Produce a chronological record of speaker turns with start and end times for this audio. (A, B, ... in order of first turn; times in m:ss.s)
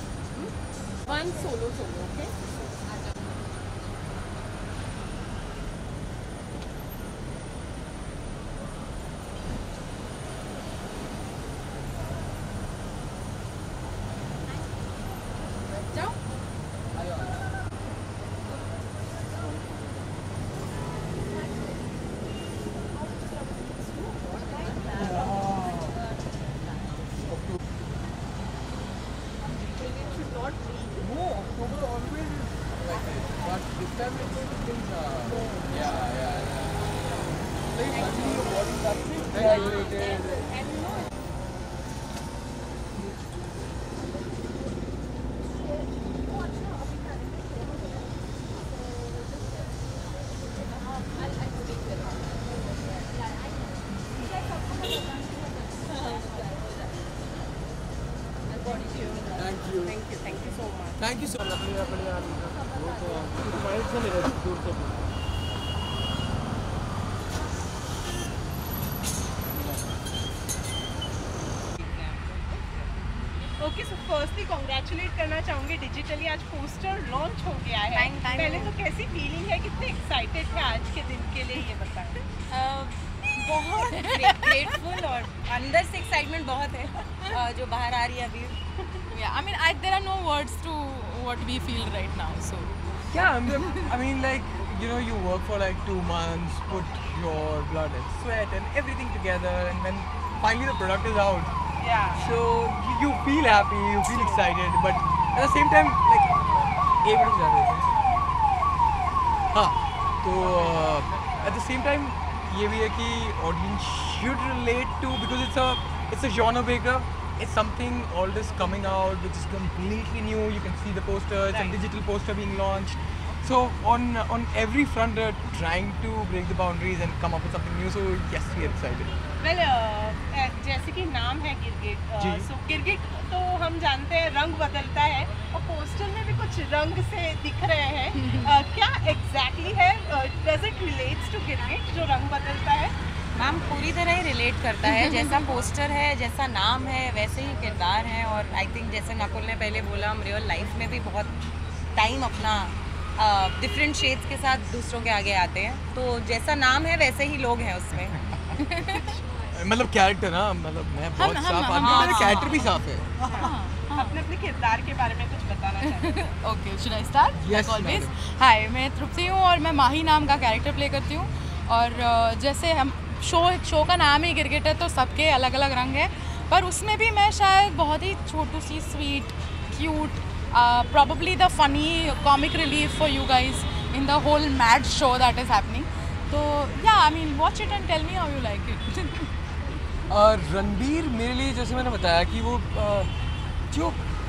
0:01.1-0:02.3 A
0:24.9-0:26.0 B
0:31.0-0:36.8 B
0:37.7-0:40.4 B
0:58.7-1:01.0 A
0:59.4-0:59.9 B
1:01.0-1:02.0 B
1:11.8-1:12.6 A
1:13.6-1:22.2 A
1:17.9-1:18.7 C
1:22.5-1:28.6 D
1:24.0-1:24.5 C
1:29.1-1:32.7 C
1:33.1-1:41.5 B
1:33.5-1:33.8 C
1:41.8-1:42.2 A
1:42.1-1:46.5 B
1:44.0-1:44.4 A
1:47.0-1:47.9 B
1:49.5-2:09.1 B
2:01.5-2:01.8 A
2:09.4-2:22.9 A
2:12.2-2:12.4 B
2:18.2-2:18.5 C
2:23.4-2:31.3 D
2:24.9-2:25.3 C
2:31.9-2:38.2 D
2:38.5-2:39.1 C
2:39.5-2:43.1 B
2:41.2-2:42.6 C
2:41.8-2:42.7 D
2:43.2-2:44.2 C
2:43.3-2:46.3 A
2:45.8-3:09.3 C
2:47.3-2:48.1 B
3:10.1-3:13.1 B
3:13.7-3:14.0 B